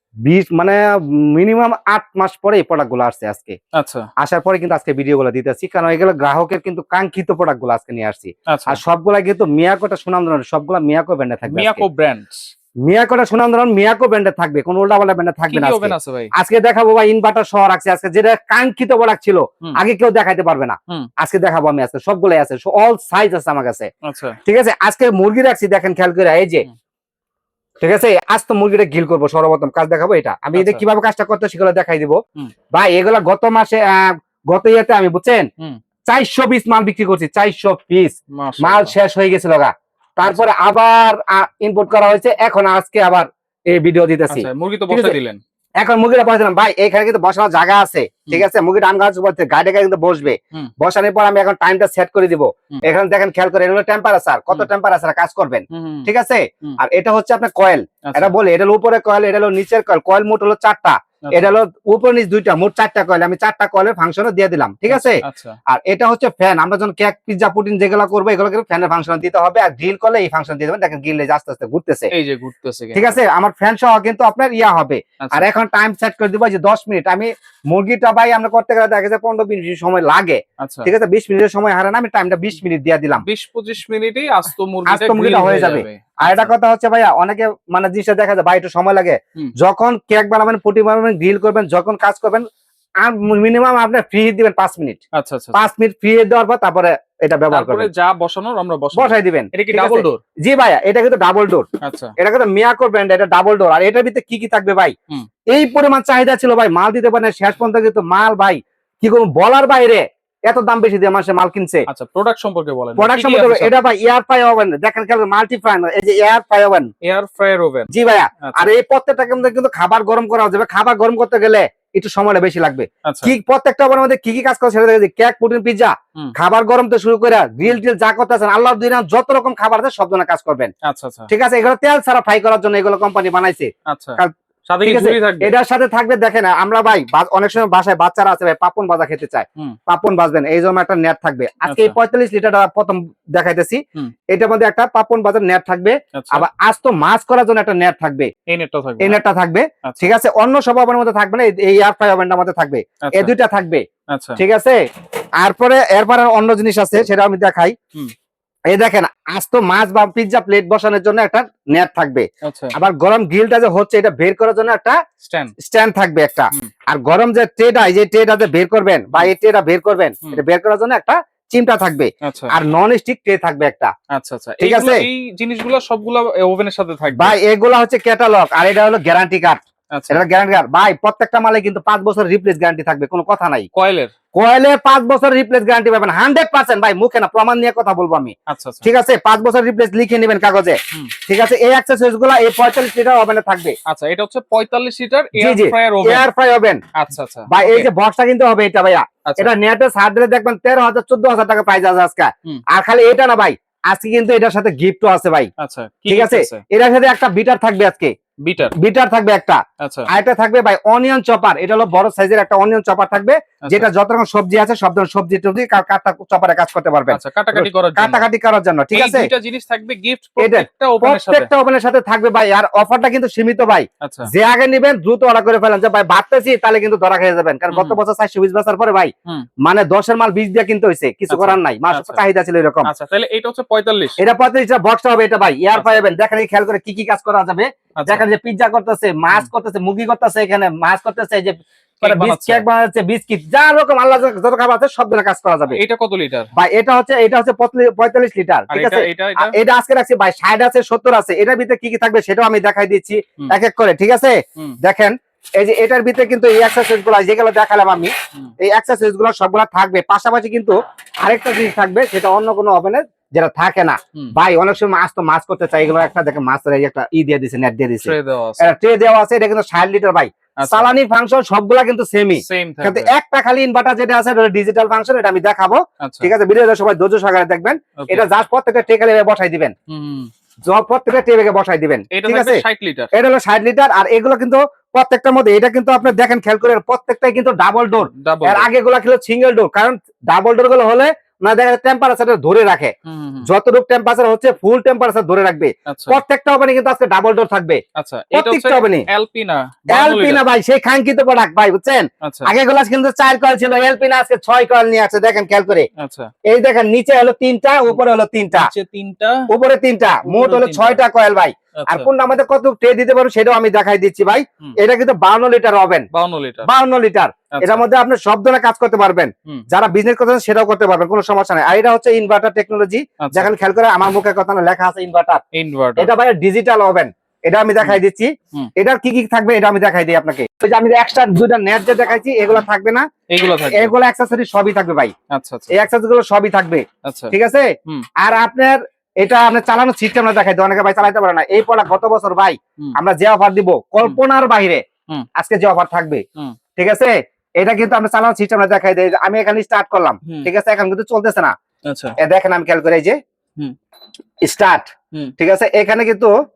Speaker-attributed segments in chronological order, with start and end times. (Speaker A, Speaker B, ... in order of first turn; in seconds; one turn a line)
Speaker A: 0.3-3.6
Speaker B: 3.7-4.1
Speaker A: 4.2-11.8
Speaker B: 8.5-8.8
Speaker B: 11.5-12.4
Speaker A: 12.9-23.9
Speaker B: 15.5-16.3
Speaker B: 24.1-24.4
Speaker A: 24.5-26.7
Speaker A: 27.8-32.2
Speaker B: 30.5-30.8
Speaker A: 32.7-35.5
Speaker A: 36.1-45.1
Speaker B: 38.3-39.0
Speaker B: 40.2-40.5
Speaker B: 44.3-45.4
Speaker A: 45.8-72.1
Speaker B: 55.7-56.1
Speaker B: 58.0-58.3
Speaker B: 61.3-61.5
Speaker B: 64.9-65.6
Speaker B: 72.1-73.2
Speaker A: 73.0-83.2
Speaker B: 75.2-75.5
Speaker B: 80.6-80.9
Speaker B: 83.2-86.5
Speaker A: 84.9-92.4
Speaker A: 93.0-95.0
Speaker B: 95.1-95.7
Speaker A: 95.5-97.9
Speaker B: 97.5-100.2
Speaker A: 98.9-101.7
Speaker B: 101.8-102.1
Speaker A: 102.2-104.9
Speaker A: 105.5-111.9
Speaker B: 111.9-113.8
Speaker A: 113.0-116.9
Speaker B: 117.0-117.9
Speaker A: 117.9-130.7
Speaker B: 118.4-118.7
Speaker B: 123.0-123.3
Speaker B: 130.8-131.3
Speaker A: 131.3-134.3
Speaker B: 133.9-135.5
Speaker A: 134.8-143.8
Speaker B: 141.7-141.9
Speaker A: 144.3-148.3
Speaker B: 146.1-146.5
Speaker B: 148.5-149.2
Speaker A: 149.0-153.8
Speaker B: 149.8-150.1
Speaker B: 153.0-153.3
Speaker B: 154.1-154.4
Speaker A: 154.4-154.8
Speaker A: 155.4-157.7
Speaker A: 158.7-165.0
Speaker B: 162.4-162.7
Speaker B: 165.2-165.5
Speaker A: 165.6-173.9
Speaker B: 172.2-172.5
Speaker B: 174.1-177.3
Speaker A: 174.6-175.1
Speaker A: 177.2-183.7
Speaker B: 179.9-180.2
Speaker B: 183.7-184.1
Speaker A: 184.3-193.7
Speaker B: 188.5-188.9
Speaker B: 193.9-196.3
Speaker A: 195.4-196.8
Speaker B: 197.0-197.9
Speaker A: 197.5-205.5
Speaker B: 199.3-199.5
Speaker B: 205.6-206.6
Speaker A: 206.1-208.1
Speaker B: 208.4-208.7
Speaker A: 208.8-219.3
Speaker B: 209.8-210.1
Speaker B: 217.1-218.3
Speaker B: 218.9-221.5
Speaker A: 220.4-229.1
Speaker B: 224.0-224.3
Speaker B: 227.7-228.0
Speaker A: 229.7-232.9
Speaker B: 231.3-232.2
Speaker B: 232.8-234.2
Speaker A: 234.2-245.8
Speaker B: 235.7-236.1
Speaker B: 238.0-238.3
Speaker B: 242.0-242.7
Speaker B: 245.7-246.5
Speaker A: 246.6-279.7
Speaker B: 248.7-249.6
Speaker B: 268.0-268.7
Speaker B: 270.6-270.9
Speaker B: 272.4-273.1
Speaker B: 276.0-276.3
Speaker B: 278.0-278.3
Speaker B: 279.9-280.3
Speaker A: 280.7-282.6
Speaker B: 282.1-283.1
Speaker A: 283.1-292.9
Speaker B: 288.1-288.7
Speaker B: 293.1-293.5
Speaker A: 293.4-297.8
Speaker B: 295.9-296.2
Speaker B: 297.9-300.4
Speaker A: 298.3-299.1
Speaker A: 299.9-305.9
Speaker B: 302.2-302.5
Speaker B: 306.0-306.3
Speaker A: 306.5-308.7
Speaker B: 307.9-309.5
Speaker A: 309.5-316.1
Speaker B: 310.2-311.0
Speaker B: 311.8-312.1
Speaker B: 316.1-316.7
Speaker A: 316.6-325.4
Speaker B: 317.5-317.8
Speaker B: 323.2-323.5
Speaker B: 325.5-326.1
Speaker A: 326.0-333.1
Speaker B: 333.3-333.9
Speaker A: 333.7-335.1
Speaker B: 335.3-335.7
Speaker A: 335.7-337.7
Speaker B: 337.1-337.4
Speaker A: 338.2-344.8
Speaker A: 345.4-346.2
Speaker A: 346.8-351.5
Speaker B: 350.3-350.5
Speaker B: 351.9-352.2
Speaker A: 352.2-353.2
Speaker A: 354.4-356.3